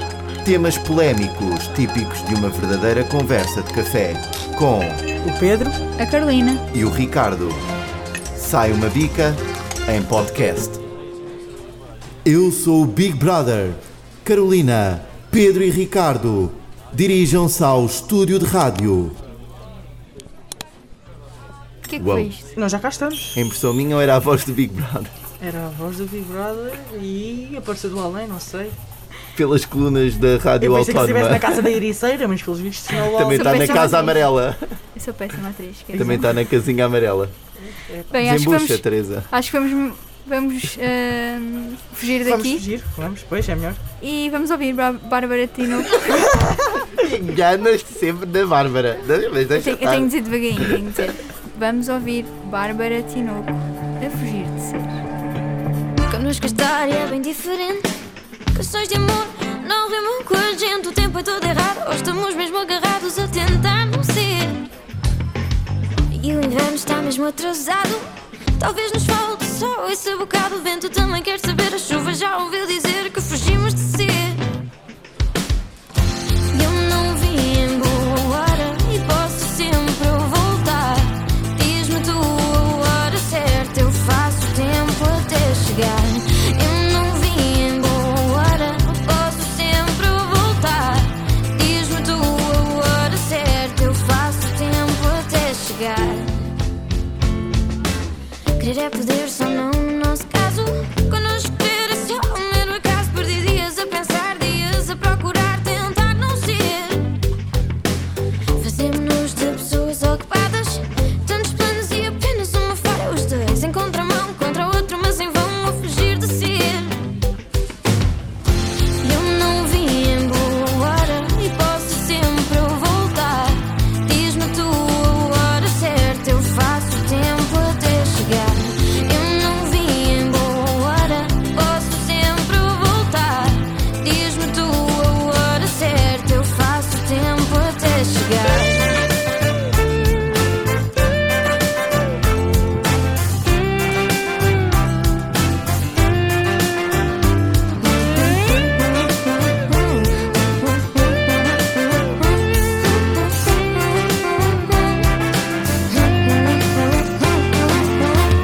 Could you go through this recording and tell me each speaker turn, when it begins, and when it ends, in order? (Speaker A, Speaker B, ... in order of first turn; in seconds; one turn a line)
Speaker A: 0.4-5.0
Speaker B: 5.2-5.8
Speaker C: 6.0-6.6
Speaker A: 6.7-7.6
Speaker A: 8.3-10.8
Speaker A: 12.2-19.2
Speaker C: 21.9-22.5
Speaker A: 22.0-22.3
Speaker B: 22.6-23.4
Speaker A: 23.4-25.2
Speaker B: 25.4-28.8
Speaker A: 29.3-31.6
Speaker B: 30.6-33.9
Speaker A: 33.0-34.6
Speaker C: 33.3-34.3
Speaker C: 35.0-36.4
Speaker B: 35.9-36.2
Speaker A: 36.0-37.3
Speaker B: 37.6-38.1
Speaker C: 38.1-42.6
Speaker A: 38.2-39.3
Speaker B: 42.2-43.8
Speaker C: 44.0-46.4
Speaker A: 46.7-50.8
Speaker C: 49.5-55.0
Speaker D: 56.1-57.9
Speaker D: 58.5-64.7
Speaker D: 66.1-68.0
Speaker D: 68.6-74.4
Speaker D: 76.5-96.3
Speaker D: 98.6-107.2
Speaker D: 108.6-117.0
Speaker D: 119.0-138.9
Speaker D: 154.0-155.0
Speaker D: 156.0-157.9